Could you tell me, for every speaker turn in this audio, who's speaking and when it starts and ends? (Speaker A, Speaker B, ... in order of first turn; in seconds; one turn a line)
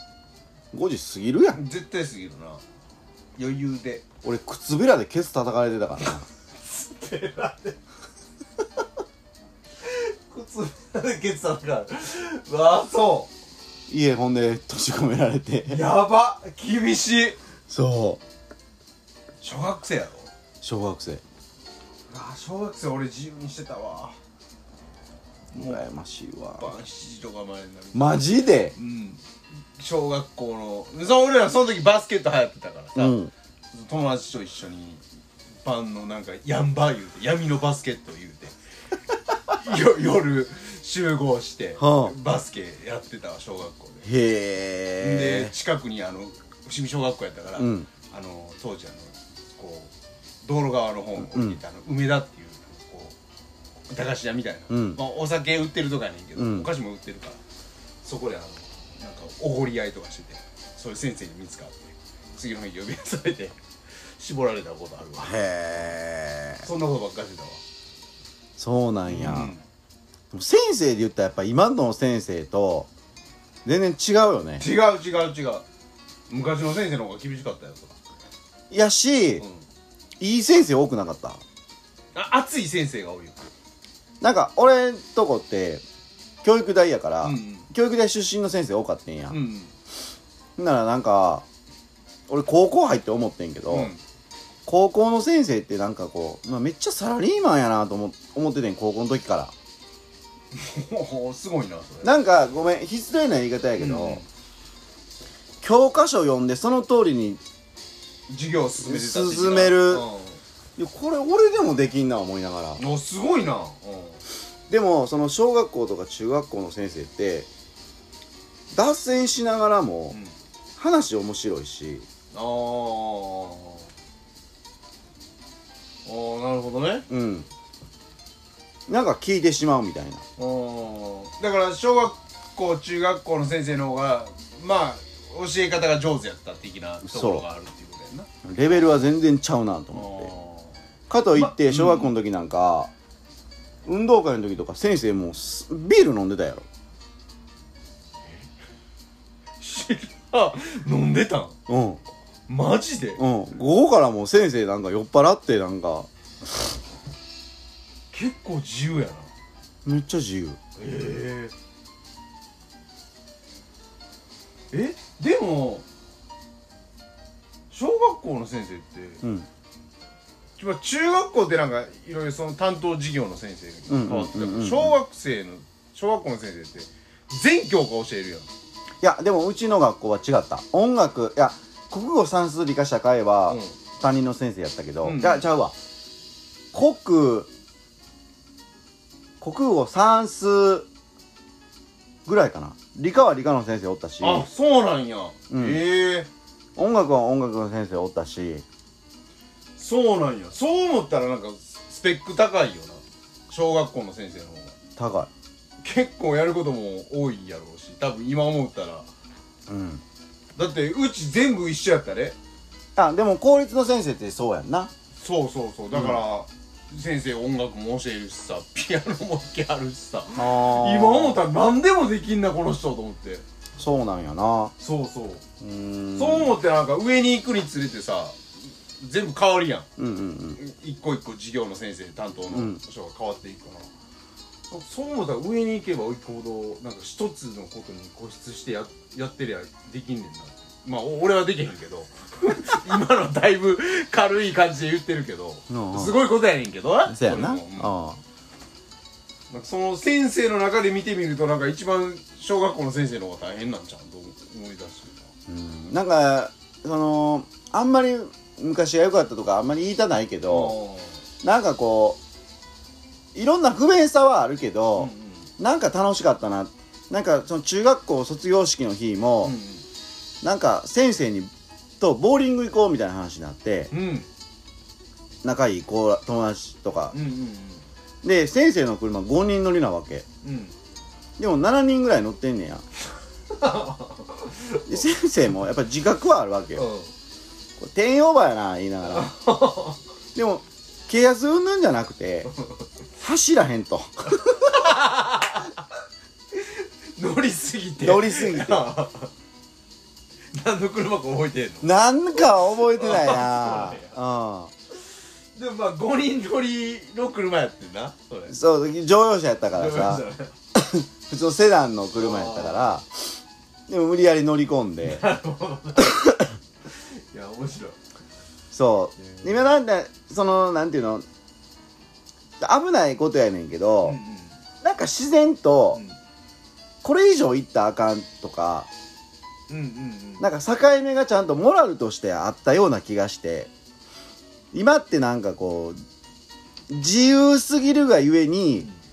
Speaker A: 0.7-1.6
Speaker B: 1.5-2.6
Speaker B: 3.4-4.0
Speaker A: 4.2-6.2
Speaker B: 6.6-7.8
Speaker B: 9.8-13.3
Speaker A: 13.9-15.8
Speaker B: 15.7-17.4
Speaker A: 17.7-18.2
Speaker B: 19.4-20.3
Speaker A: 20.6-21.2
Speaker B: 22.1-24.1
Speaker A: 25.5-26.7
Speaker B: 25.5-25.8
Speaker B: 26.6-28.2
Speaker A: 27.9-28.7
Speaker B: 28.7-29.2
Speaker B: 29.8-33.1
Speaker A: 33.0-33.3
Speaker B: 33.7-35.0
Speaker B: 35.6-38.5
Speaker B: 39.5-44.1
Speaker A: 41.8-42.1
Speaker A: 44.0-45.5
Speaker B: 45.0-49.9
Speaker A: 47.6-47.9
Speaker B: 50.4-53.1
Speaker A: 51.2-51.6
Speaker B: 53.9-57.4
Speaker A: 54.7-55.0
Speaker A: 56.4-56.7
Speaker B: 58.0-63.5
Speaker B: 64.2-65.4
Speaker A: 65.2-66.6
Speaker B: 66.6-67.6
Speaker A: 68.6-69.5
Speaker B: 69.1-69.6
Speaker A: 70.3-72.9
Speaker A: 73.6-74.6
Speaker B: 74.6-75.6
Speaker B: 76.3-78.0
Speaker A: 78.7-79.4
Speaker A: 80.2-81.4
Speaker B: 82.1-83.5
Speaker A: 84.2-85.8
Speaker A: 86.4-89.4
Speaker B: 87.2-87.7
Speaker B: 89.3-89.7
Speaker A: 90.6-91.5
Speaker A: 92.3-93.9
Speaker B: 93.7-94.0
Speaker A: 94.7-99.5
Speaker B: 100.5-102.1
Speaker A: 102.0-104.2
Speaker B: 103.8-104.2
Speaker A: 105.6-107.4
Speaker B: 108.3-110.4
Speaker A: 108.8-110.0
Speaker A: 110.8-112.8
Speaker B: 112.8-114.2
Speaker A: 114.7-117.5
Speaker A: 118.7-120.2
Speaker A: 120.8-122.1
Speaker B: 122.3-123.9
Speaker B: 126.0-127.1
Speaker A: 127.1-127.5
Speaker A: 128.9-130.2
Speaker B: 130.4-138.3
Speaker A: 137.0-137.4
Speaker A: 138.4-140.3
Speaker B: 139.9-140.7
Speaker A: 141.1-142.9
Speaker B: 141.3-142.1
Speaker A: 143.8-146.6
Speaker B: 149.6-151.6
Speaker A: 151.7-152.0
Speaker B: 152.5-153.2
Speaker A: 153.2-156.1
Speaker B: 158.1-159.3
Speaker A: 159.8-160.6
Speaker B: 160.8-161.5
Speaker B: 164.7-165.8
Speaker B: 167.7-169.2
Speaker B: 170.6-178.5
Speaker A: 173.9-174.9
Speaker A: 179.0-185.7
Speaker B: 183.5-183.7
Speaker B: 185.0-185.4
Speaker A: 186.7-187.5
Speaker A: 189.4-190.9
Speaker A: 192.2-194.5
Speaker B: 194.2-196.3
Speaker A: 195.5-195.8
Speaker A: 196.8-198.6
Speaker B: 199.8-204.7
Speaker A: 205.0-205.3
Speaker B: 205.8-209.1
Speaker A: 209.7-210.0
Speaker B: 210.6-212.3
Speaker A: 212.9-214.9
Speaker B: 215.2-223.4
Speaker A: 215.9-216.2
Speaker A: 220.3-221.4
Speaker A: 223.8-224.7
Speaker B: 224.8-225.4
Speaker A: 225.6-226.5
Speaker B: 226.1-228.4
Speaker B: 229.0-229.9
Speaker A: 230.0-230.6
Speaker B: 230.6-233.9
Speaker A: 232.5-232.8
Speaker B: 234.7-247.9
Speaker A: 245.7-246.2
Speaker A: 247.1-248.2
Speaker B: 249.5-255.3
Speaker A: 255.5-260.7
Speaker B: 260.5-261.2
Speaker A: 261.4-262.2
Speaker A: 263.3-269.6
Speaker B: 265.0-265.5
Speaker B: 269.4-269.8
Speaker A: 270.4-273.9
Speaker B: 273.9-274.2
Speaker A: 275.4-277.1
Speaker B: 277.1-277.8
Speaker A: 278.2-280.2
Speaker B: 280.4-280.7
Speaker A: 281.4-282.8
Speaker B: 283.5-285.1
Speaker A: 284.9-286.9
Speaker B: 286.8-287.1
Speaker A: 287.8-289.3
Speaker B: 289.1-290.0
Speaker A: 290.3-292.5
Speaker A: 293.2-294.9
Speaker B: 294.7-295.8
Speaker B: 296.5-299.3
Speaker A: 298.0-298.9
Speaker B: 300.5-304.1
Speaker A: 301.8-304.7
Speaker B: 305.5-308.5
Speaker A: 308.5-310.2
Speaker B: 309.7-310.5
Speaker A: 310.7-313.2
Speaker B: 312.1-312.9
Speaker A: 313.9-315.2
Speaker B: 315.0-316.2
Speaker B: 316.9-318.0
Speaker A: 318.7-321.2
Speaker B: 319.2-319.6
Speaker A: 322.6-324.2
Speaker B: 324.0-324.6
Speaker A: 324.8-326.0
Speaker A: 327.0-328.9
Speaker B: 329.7-330.5
Speaker A: 330.4-333.7
Speaker A: 334.7-336.0
Speaker A: 336.9-338.9